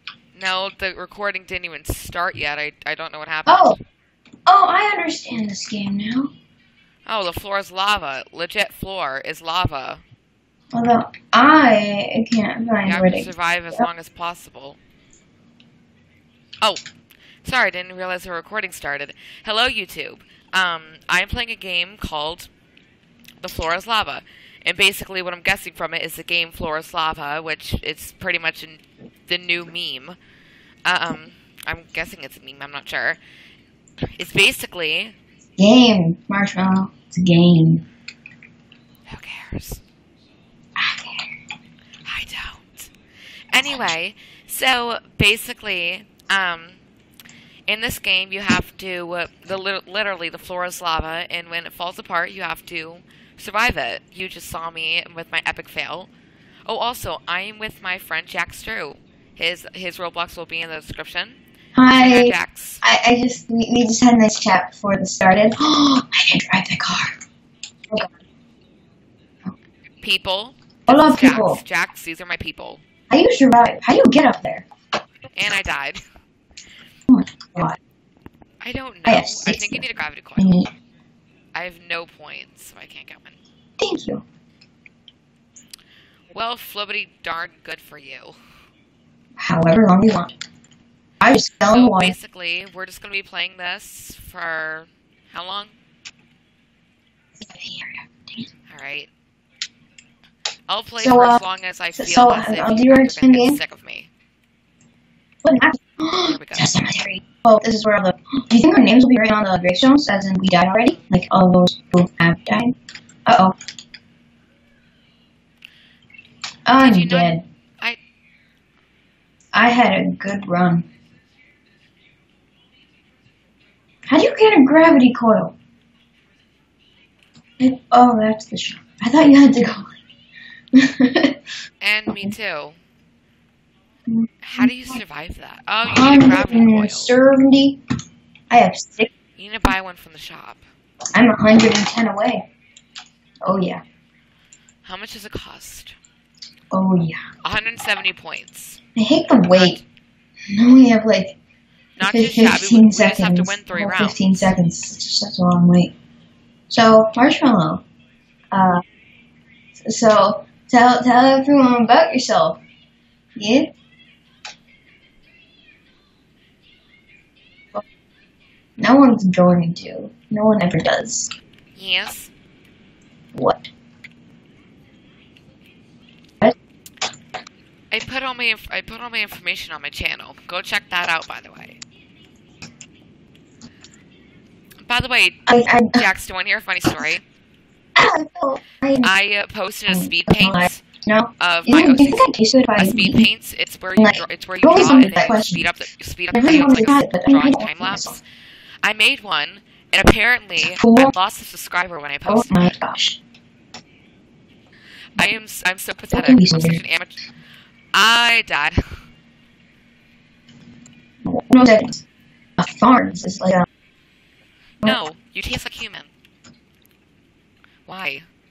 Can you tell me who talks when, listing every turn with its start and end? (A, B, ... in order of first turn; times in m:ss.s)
0:00.3-0:03.8 A
0:03.5-0:03.8 B
0:04.4-0:06.3 B
0:07.0-0:10.0 A
0:10.7-0:13.8 B
0:12.8-0:14.8 A
0:17.4-0:22.5 A
0:23.4-0:30.2 A
0:30.8-0:33.2 A
0:34.2-0:35.1 A
0:35.6-0:37.8 B
0:39.1-0:39.8 A
0:40.8-0:41.3 B
0:42.0-0:42.9 A
0:43.5-0:46.8 A
0:47.7-0:56.1 A
0:56.7-1:01.4 A
1:01.7-1:07.2 B
1:01.9-1:02.8 A
1:10.0-1:12.8 A
1:10.9-1:11.6 B
1:13.1-1:14.7 B
1:15.3-1:16.0 A
1:17.1-1:17.8 B
1:18.6-1:20.6 A
1:19.0-1:19.8 B
1:20.4-1:20.7 B
1:21.5-1:23.4 A
1:23.8-1:24.2 B
1:26.3-1:28.4 A
1:29.4-1:30.3 B
1:31.2-1:32.1 B
1:31.7-1:35.7 A
1:37.4-1:38.5 B
1:38.7-1:39.1 A
1:40.7-1:44.1 A
1:41.0-1:41.4 B
1:41.9-1:43.6 B
1:45.4-1:52.7 B
1:46.2-1:46.7 A
1:53.2-1:53.5 B
1:56.7-1:57.4 B
1:56.8-1:58.0 A
1:59.5-2:00.8 B
2:04.1-2:05.6 B
2:07.6-2:09.9 B
2:10.7-2:11.4 B
2:11.8-2:12.8 A
2:14.1-2:15.0 B
2:14.4-2:17.1 A
2:15.8-2:17.8 B
2:18.5-2:19.1 B
2:19.4-2:20.6 A
2:21.1-2:22.5 B
2:23.4-2:23.8 B
2:24.8-2:26.0 A
2:26.7-2:27.3 B
2:27.4-2:28.8 A
2:29.0-2:29.8 B
2:29.5-2:29.8 A
2:30.5-2:31.4 B
2:32.0-2:34.5 A
2:32.0-2:35.9 B
2:36.7-2:37.8 B
2:38.5-2:38.8 B
2:39.8-2:42.6 B
2:43.4-2:43.7 B
2:48.8-2:51.3 B
2:51.7-2:52.3 A
2:53.3-2:53.7 B
2:57.9-3:01.8 A
3:04.8-3:07.2 A
3:05.5-3:06.0 B
3:08.0-3:09.1 B
3:09.0-3:10.8 A
3:09.9-3:13.3 B
3:11.4-3:18.2 A
3:14.0-3:15.7 B
3:16.3-3:18.2 B
3:18.8-3:22.8 A
3:20.6-3:21.1 B
3:22.3-3:23.2 B
3:25.2-3:27.2 A
3:26.1-3:26.8 B
3:27.9-3:28.9 A
3:31.2-3:32.0 B
3:32.6-3:33.6 B
3:34.8-3:36.1 A
3:37.8-3:38.2 A